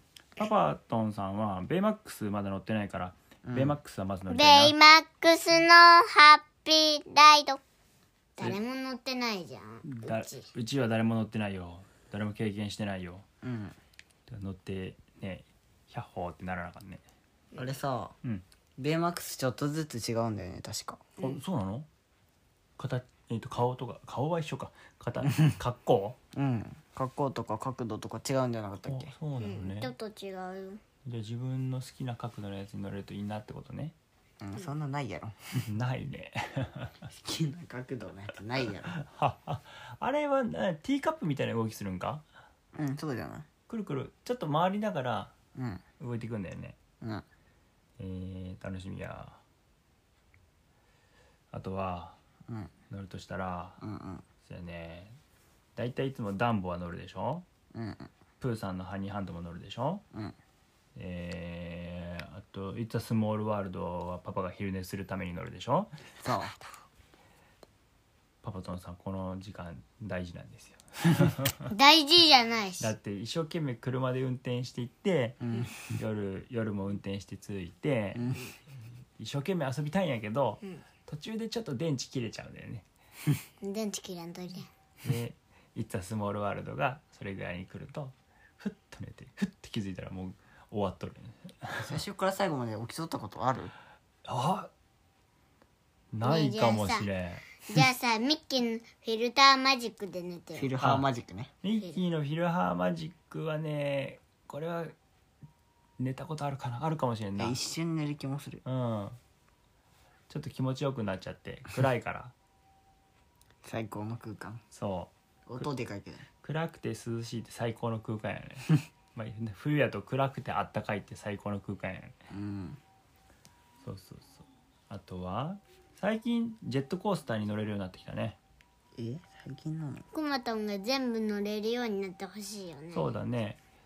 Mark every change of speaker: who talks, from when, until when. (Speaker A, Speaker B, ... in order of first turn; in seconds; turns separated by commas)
Speaker A: 0.4-4.8, Speaker B: 3.5-3.8, Speaker C: 4.3-7.6, Speaker C: 8.4-10.5, Speaker A: 9.8-13.2, Speaker B: 13.4-13.8, Speaker A: 14.3-17.0, Speaker B: 17.6-18.1, Speaker B: 18.8-21.1, Speaker A: 21.2-21.9, Speaker A: 22.8-26.2, Speaker B: 25.2-25.5, Speaker B: 26.4-29.1, Speaker A: 28.9-29.9, Speaker C: 29.4-30.8, Speaker A: 31.1-34.0, Speaker B: 34.4-35.4, Speaker A: 35.6-37.1, Speaker B: 37.2-38.9, Speaker A: 38.9-42.2, Speaker B: 42.8-43.5, Speaker A: 43.7-45.3, Speaker B: 45.5-45.8, Speaker A: 46.0-46.8, Speaker A: 48.0-49.4, Speaker A: 51.5-52.2, Speaker B: 52.5-52.7, Speaker A: 52.9-53.8, Speaker B: 53.8-54.2, Speaker A: 54.4-55.2, Speaker A: 55.8-57.5, Speaker B: 57.7-58.1, Speaker A: 58.4-60.0, Speaker A: 61.0-65.9, Speaker B: 66.2-66.6, Speaker A: 68.4-71.7, Speaker C: 71.7-72.9, Speaker A: 72.8-75.4, Speaker B: 75.4-76.0, Speaker A: 75.9-78.4, Speaker B: 78.2-78.5, Speaker A: 79.2-82.8, Speaker C: 83.6-84.7, Speaker A: 85.0-92.0, Speaker B: 91.8-93.7, Speaker A: 94.3-94.7, Speaker A: 96.1-97.5, Speaker C: 96.2-97.1, Speaker C: 97.6-100.7, Speaker B: 100.6-101.5, Speaker A: 100.8-101.1, Speaker A: 101.6-104.9, Speaker A: 106.0-107.6, Speaker B: 107.4-108.6, Speaker A: 108.7-109.2, Speaker A: 110.3-112.3, Speaker B: 113.6-114.6, Speaker A: 114.7-115.7, Speaker B: 115.5-116.2, Speaker A: 116.4-122.2, Speaker B: 122.3-122.8, Speaker A: 123.8-128.4, Speaker B: 129.0-130.1, Speaker C: 130.1-133.1, Speaker A: 132.9-133.6